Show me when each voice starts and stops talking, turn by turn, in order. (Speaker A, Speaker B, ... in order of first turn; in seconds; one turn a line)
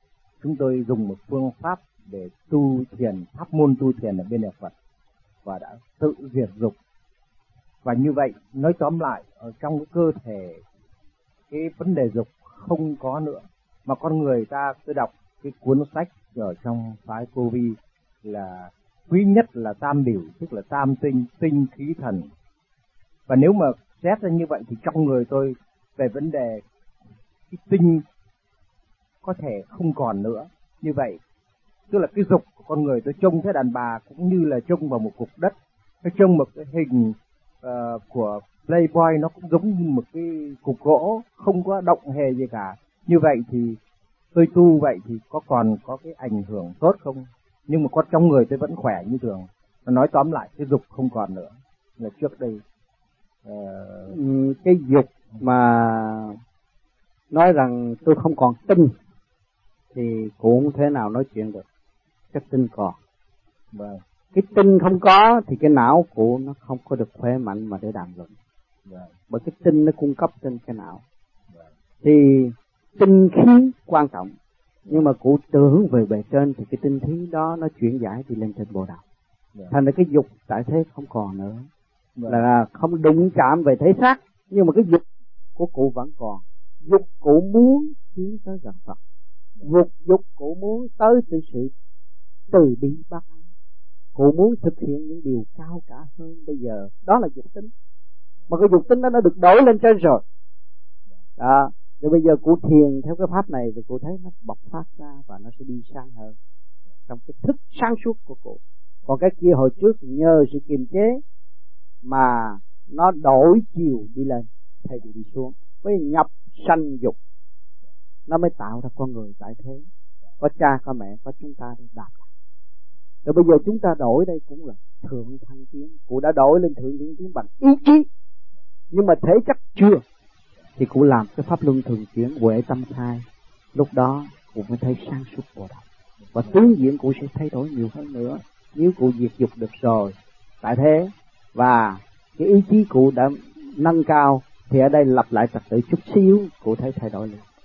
Speaker A: 0.4-4.7
Speaker A: 5.5-6.8
Speaker A: 7.8-10.6
Speaker A: 11.5-22.3
Speaker A: 23.3-26.6
Speaker A: 27.5-28.0
Speaker A: 29.2-31.2
Speaker A: 31.9-43.8
Speaker A: 44.3-52.6
Speaker A: 53.5-54.2
Speaker B: 54.1-56.4
Speaker B: 57.3-58.9
Speaker B: 59.9-61.6
Speaker B: 62.3-63.0
Speaker A: 63.7-64.0
Speaker B: 64.3-68.3
Speaker A: 68.9-69.1
Speaker B: 69.3-71.0
Speaker B: 72.0-74.3
Speaker B: 74.9-79.0
Speaker B: 79.7-81.7
Speaker A: 82.2-82.4
Speaker B: 82.3-85.0
Speaker B: 85.6-89.0
Speaker B: 89.6-91.7
Speaker B: 92.5-93.5
Speaker B: 94.2-97.7
Speaker B: 98.5-100.2
Speaker B: 101.4-106.4
Speaker B: 107.1-111.2
Speaker B: 112.0-117.2
Speaker B: 118.3-119.9
Speaker B: 120.4-122.3
Speaker B: 123.2-128.1
Speaker B: 128.9-130.0
Speaker B: 130.8-135.8
Speaker B: 136.3-147.5